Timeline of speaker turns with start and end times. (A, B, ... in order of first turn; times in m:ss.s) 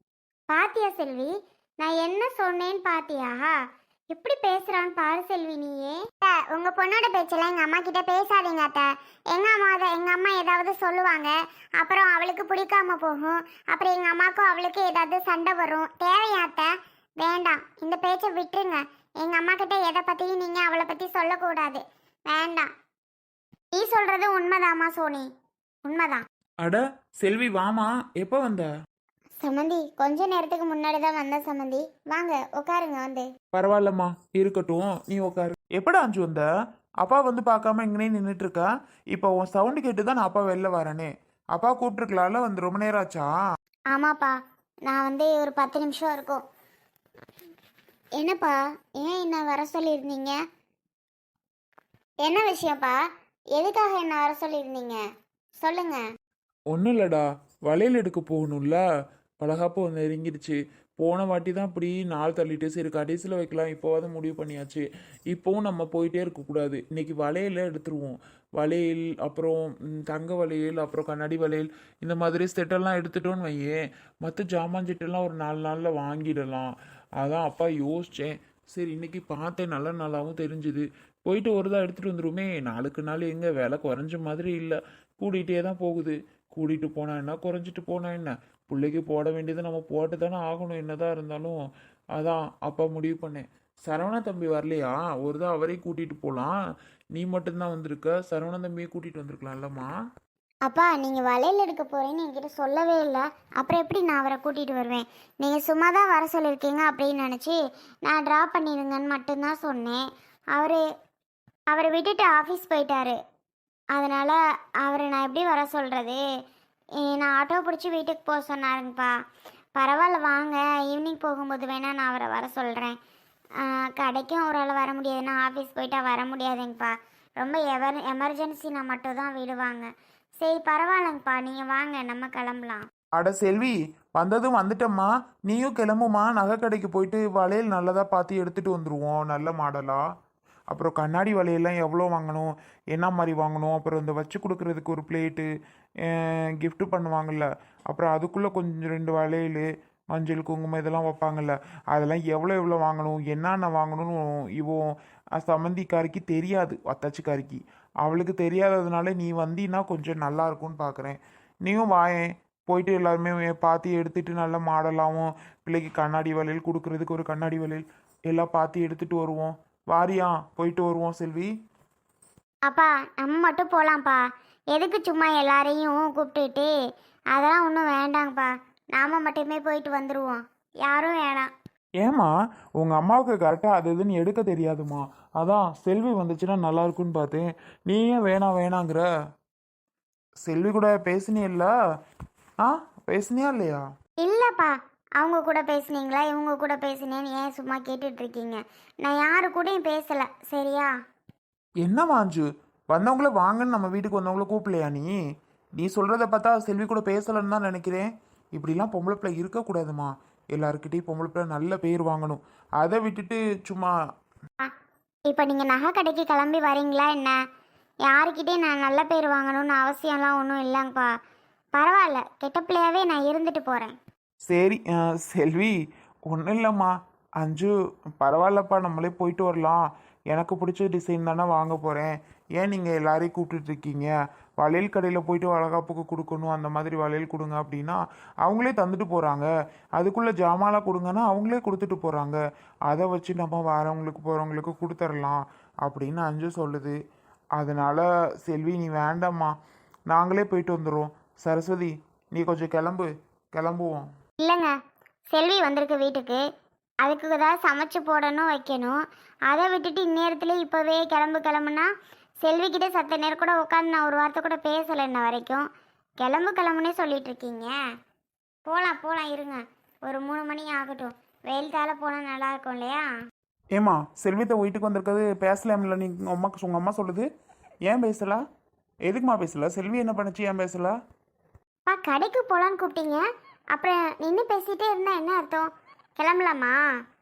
0:00.5-0:03.6 A
0:04.1-0:22.7 A
0:23.7-0:25.3 A
0:25.8-0:26.2 A
0:26.6-0:28.7 B
0:29.4-0:33.3 A
0:33.5-0:36.5 B
0:37.0-0:43.3 B
0:43.9-0:46.4 A
0:48.2-0:50.4 A
0:52.2-0:53.0 A
0:53.6-0:55.0 A
0:55.6-0:56.0 A
0:56.7-0:58.8 B
0:59.4-1:31.6 B
1:32.2-1:36.6 B
1:37.2-1:39.9 B
1:40.6-1:50.0 A
1:50.6-1:50.8 A
1:51.7-1:53.2 A
1:54.0-1:56.2 A
1:57.0-1:59.1 A
1:59.8-2:03.0 A
2:03.6-2:12.9 A
2:13.2-2:20.0 B
2:20.7-2:25.5 B
2:26.1-2:51.5 B
2:52.7-2:54.2 A
2:54.7-2:56.7 A
2:57.3-3:01.5 A
3:02.0-3:09.0 B
3:10.4-3:11.7 B
3:12.6-3:13.8 B
3:14.2-3:20.9 A
3:21.8-3:25.1 B
3:25.8-3:34.0 B
3:35.3-3:37.4 A
3:38.1-3:41.1 A
3:41.8-3:44.0 A
3:44.5-3:45.8 B
3:46.3-4:07.0 B
4:07.6-4:09.5 B
4:10.1-4:14.1 B
4:14.4-4:14.7 A
4:15.3-4:16.4 A
4:17.0-4:21.9 A
4:22.4-4:25.7 A
4:26.2-4:27.7 A
4:28.7-4:33.1 A
4:33.8-4:37.3 B
4:37.9-4:38.4 B
4:39.1-4:41.0 B
4:41.9-4:43.2 A
4:43.7-4:46.8 A